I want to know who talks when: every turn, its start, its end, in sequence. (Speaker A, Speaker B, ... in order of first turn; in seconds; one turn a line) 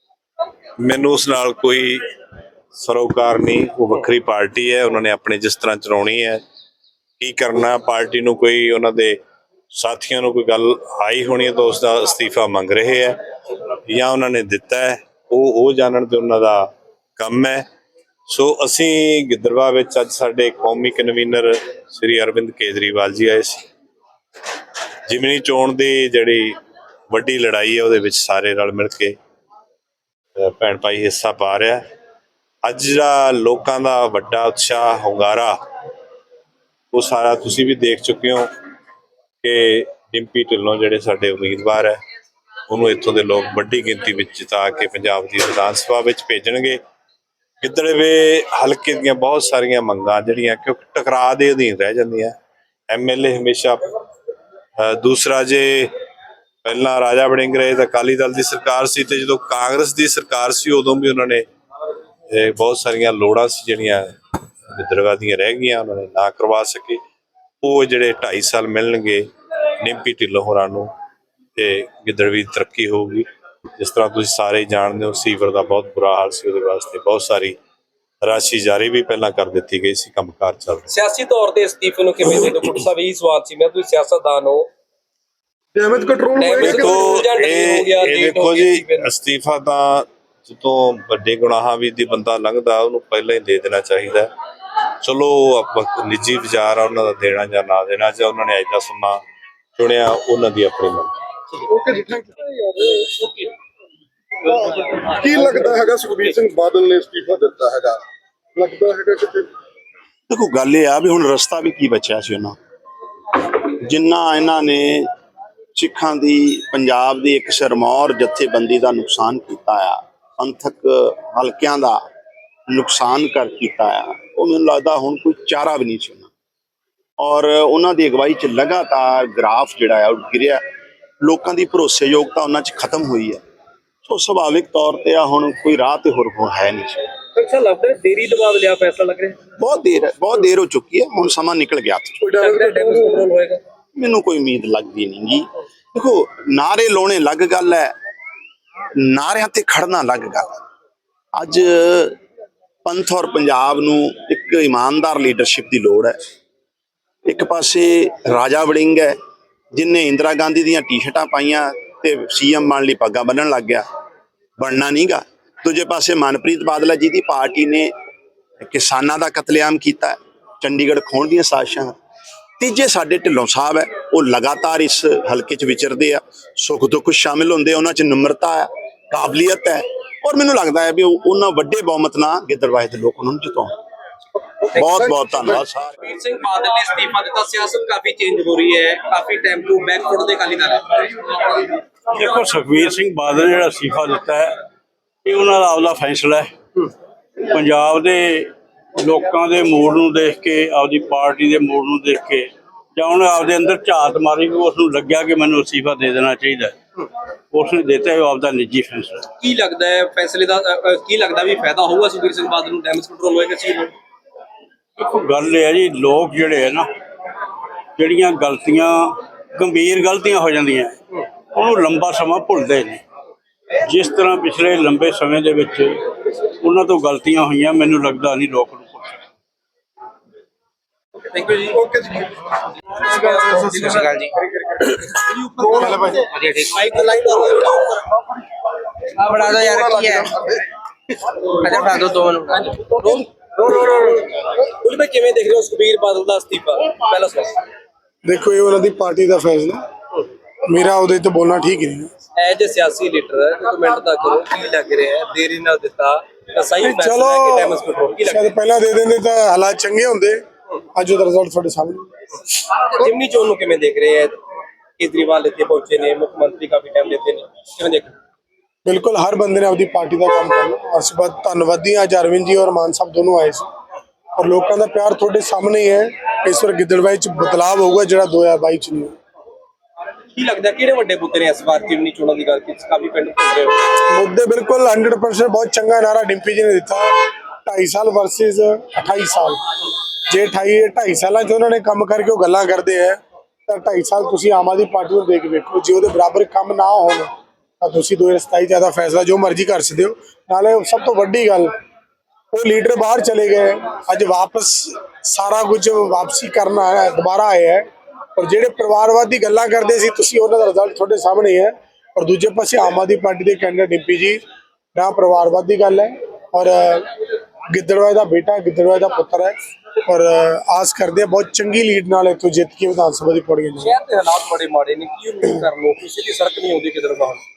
Speaker A: 0.8-2.0
Speaker A: 2.7-6.4
Speaker A: 7.2-9.2
Speaker A: 9.7-13.2
Speaker A: 13.9-16.7
Speaker A: 17.2-17.6
Speaker A: 18.3-23.6
Speaker A: 25.1-26.6
Speaker A: 27.1-29.1
Speaker A: 30.4-31.8
Speaker A: 32.6-35.6
Speaker A: 36.9-38.5
Speaker A: 39.4-42.0
Speaker A: 42.7-46.8
Speaker A: 47.6-52.3
Speaker A: 52.9-53.8
Speaker A: 54.8-55.9
Speaker A: 56.6-61.4
Speaker A: 62.3-64.1
Speaker A: 64.7-67.0
Speaker A: 67.6-69.2
Speaker A: 69.8-70.9
Speaker A: 71.6-73.3
Speaker A: 73.8-77.5
Speaker A: 78.2-80.9
Speaker B: 80.9-84.7
Speaker C: 85.8-86.9
Speaker B: 86.4-89.1
Speaker A: 86.6-94.3
Speaker A: 95.0-99.2
Speaker A: 99.8-101.1
Speaker C: 101.7-103.1
Speaker B: 103.1-103.5
Speaker C: 104.5-108.0
Speaker B: 104.6-106.3
Speaker C: 108.5-109.5
Speaker D: 110.3-112.6
Speaker D: 113.7-115.1
Speaker D: 115.8-122.0
Speaker D: 122.7-126.3
Speaker D: 127.2-130.6
Speaker D: 131.2-133.4
Speaker D: 134.1-137.1
Speaker B: 137.3-139.4
Speaker D: 139.6-142.3
Speaker C: 142.3-143.2
Speaker B: 142.3-143.6
Speaker D: 144.0-147.9
Speaker D: 149.0-150.6
Speaker D: 151.4-152.2
Speaker D: 152.8-156.2
Speaker D: 157.3-159.2
Speaker D: 159.7-163.9
Speaker D: 164.6-167.9
Speaker D: 168.6-172.0
Speaker D: 172.6-183.8
Speaker B: 184.8-185.1
Speaker D: 184.8-185.9
Speaker B: 186.0-191.7
Speaker E: 192.1-194.6
Speaker E: 195.2-196.5
Speaker E: 197.4-206.8
Speaker E: 207.5-209.3
Speaker B: 209.4-213.9
Speaker E: 215.0-216.9
Speaker E: 218.0-223.0
Speaker E: 223.8-229.2
Speaker B: 231.3-234.3
Speaker F: 233.5-233.8
Speaker G: 233.8-234.3
Speaker B: 234.9-237.9
Speaker F: 235.7-236.3
Speaker G: 236.3-236.7
Speaker B: 239.3-239.6
Speaker G: 239.4-240.3
Speaker C: 239.6-240.6
Speaker G: 241.7-242.6
Speaker C: 241.7-242.0
Speaker B: 242.5-247.6
Speaker F: 248.2-249.8
Speaker F: 250.7-252.1
Speaker B: 252.4-258.5
Speaker F: 256.8-260.4
Speaker F: 260.9-262.1
Speaker B: 262.9-264.4
Speaker B: 265.0-268.1
Speaker F: 268.9-273.7
Speaker F: 274.4-279.1
Speaker B: 280.3-283.8
Speaker F: 284.1-287.1
Speaker F: 287.7-289.6
Speaker F: 290.3-301.7
Speaker F: 302.5-314.4
Speaker F: 314.9-317.1
Speaker F: 317.7-319.5
Speaker F: 320.1-323.9
Speaker B: 323.8-327.4